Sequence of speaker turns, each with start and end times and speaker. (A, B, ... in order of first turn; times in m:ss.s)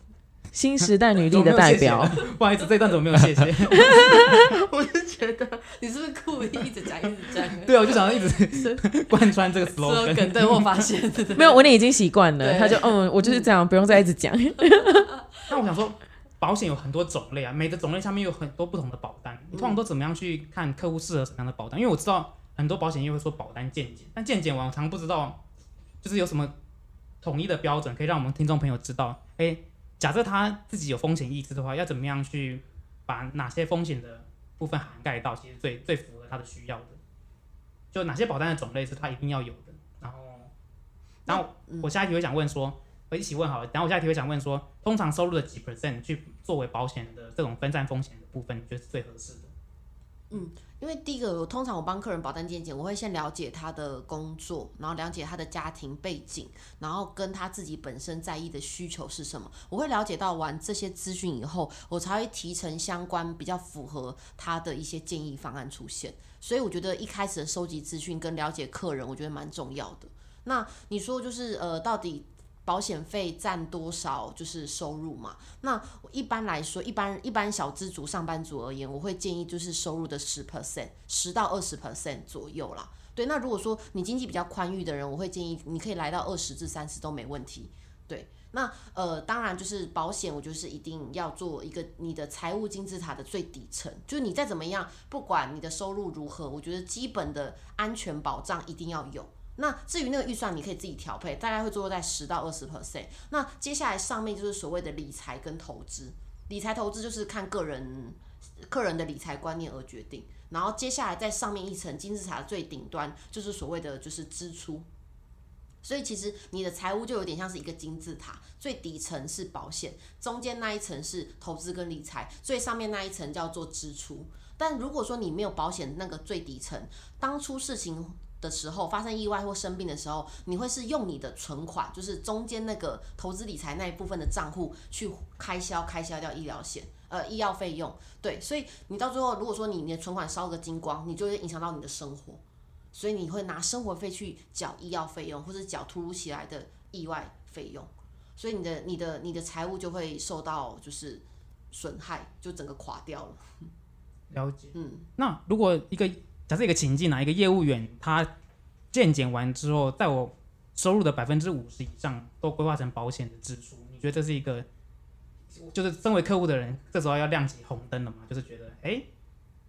0:00.5-0:02.2 A
0:00.8-0:04.0 B
0:03.7-0:04.5 A
0:03.9-0:08.8 C
0:07.6-0:10.7 B
0:09.7-0:11.7 C
0:11.4-0:15.1 A
0:12.4-0:13.5 C
0:15.5-0:25.4 B
0:19.5-0:19.8 C
0:26.0-0:26.5 B
0:27.2-0:37.0 B
0:37.9-0:40.5 B
0:41.3-0:41.9 C
0:41.3-0:49.5 B
0:50.3-1:54.9 C
1:55.8-2:22.4 C
2:22.9-2:33.5 C
2:34.3-2:38.3 B
2:34.7-2:35.0 C
2:38.9-2:44.7 B
2:45.6-2:49.1 B